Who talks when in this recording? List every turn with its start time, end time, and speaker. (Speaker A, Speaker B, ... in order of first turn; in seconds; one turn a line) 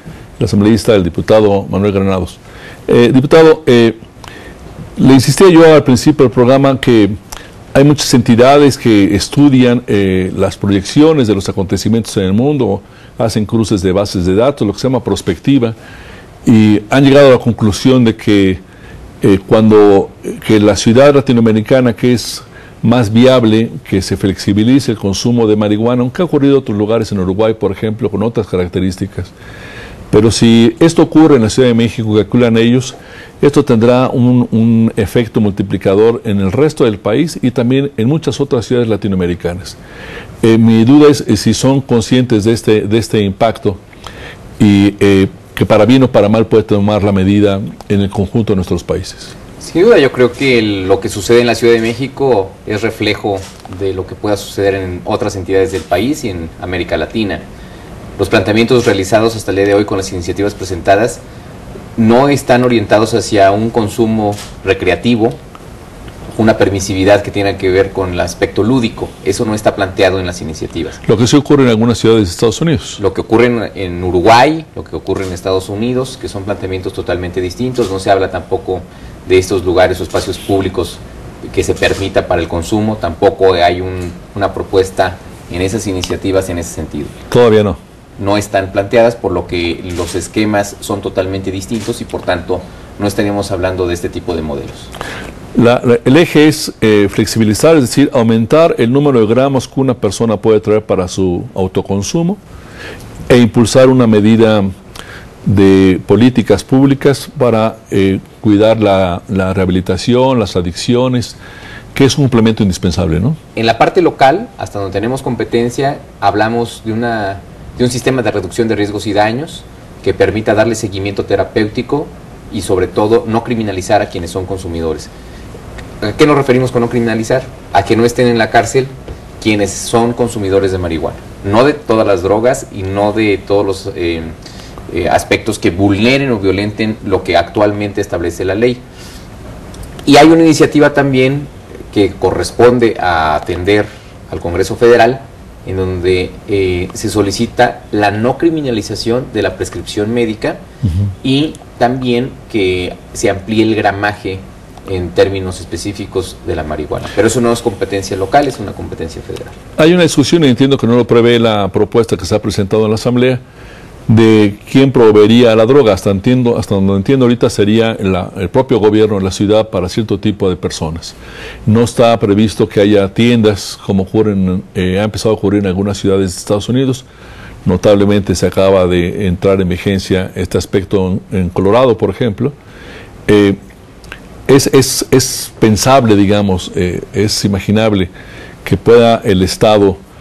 Speaker A: 0.4-4.0
Speaker A: 5.0-7.2
Speaker A: 7.7-15.8
Speaker A: 16.4-18.6
Speaker A: 19.2-29.3
Speaker A: 30.1-39.8
Speaker A: 40.4-43.8
Speaker A: 44.6-49.3
Speaker B: 49.6-57.5
Speaker B: 58.2-61.2
Speaker B: 62.0-65.4
Speaker B: 66.3-71.0
Speaker A: 71.1-73.0
Speaker B: 73.0-87.2
Speaker A: 87.3-87.8
Speaker B: 88.2-94.9
Speaker A: 95.5-102.4
Speaker A: 103.3-104.7
Speaker A: 105.4-111.4
Speaker A: 111.9-113.4
Speaker B: 113.5-125.1
Speaker B: 126.0-134.3
Speaker B: 134.9-138.8
Speaker B: 140.1-150.6
Speaker B: 151.2-159.6
Speaker A: 159.8-163.4
Speaker A: 164.1-177.1
Speaker A: 177.7-182.6
Speaker A: 183.3-183.6
Speaker A: 184.5-188.1
Speaker A: 188.6-190.0